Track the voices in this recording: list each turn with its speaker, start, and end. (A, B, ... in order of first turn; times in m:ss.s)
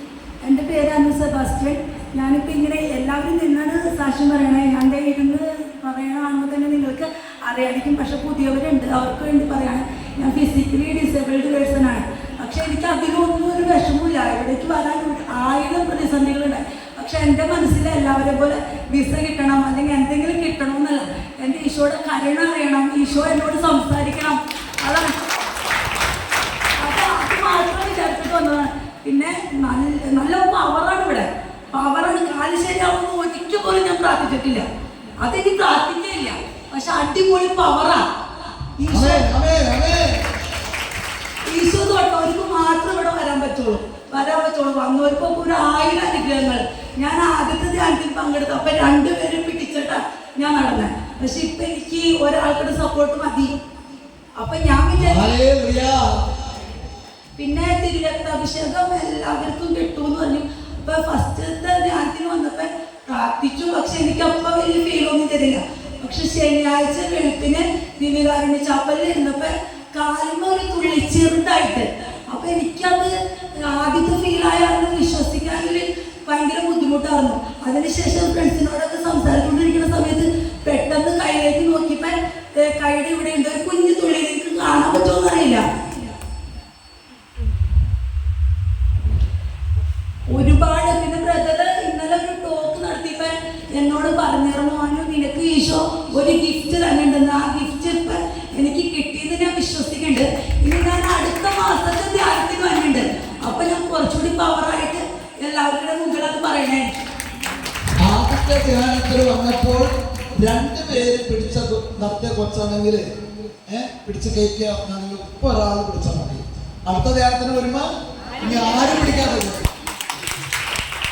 0:00.4-0:25.2 A
0:26.8-0:34.6 A
0:35.2-0:38.1 A
0:38.8-0:39.3 A
0:38.9-0:40.2 B
0:41.5-0:53.6 A
0:54.4-0:55.3 A
0:55.0-0:56.2 B
0:57.4-1:26.1 A
1:30.3-1:47.0 A
1:48.0-1:53.0 B
1:53.6-1:59.6 B